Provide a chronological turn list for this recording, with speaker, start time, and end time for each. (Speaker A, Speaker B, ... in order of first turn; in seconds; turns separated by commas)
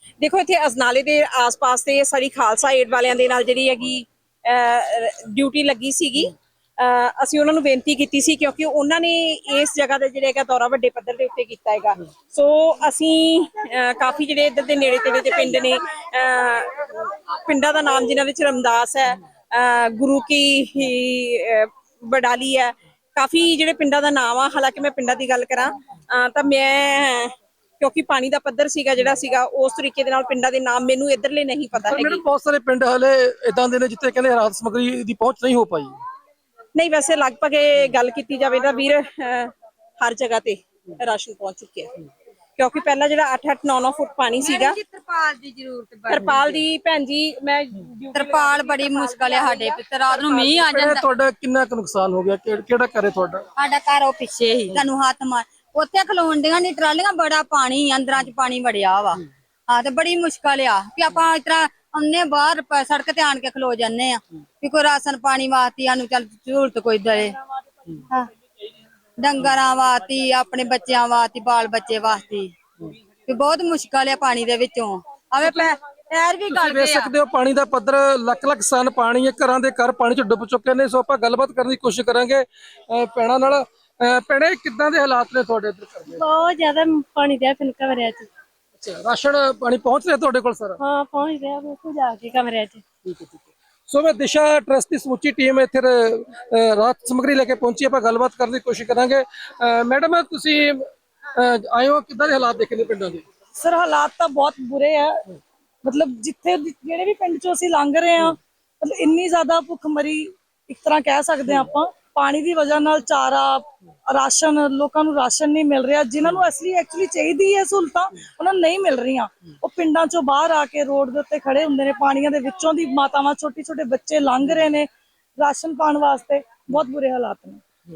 Speaker A: 0.2-32.2, Speaker B: 31.8-36.0, Speaker A: 36.7-41.9, Speaker A: 42.6-44.8, Speaker C: 44.4-46.4, Speaker A: 46.1-50.5, Speaker C: 48.1-51.0, Speaker B: 50.5-53.4, Speaker C: 53.6-67.3, Speaker C: 69.2-72.5, Speaker C: 73.3-77.1, Speaker B: 75.4-75.7, Speaker B: 76.5-86.2, Speaker D: 86.2-88.3, Speaker B: 88.8-90.8, Speaker D: 90.8-92.8, Speaker B: 93.0-103.2, Speaker E: 103.6-105.2, Speaker E: 105.8-127.6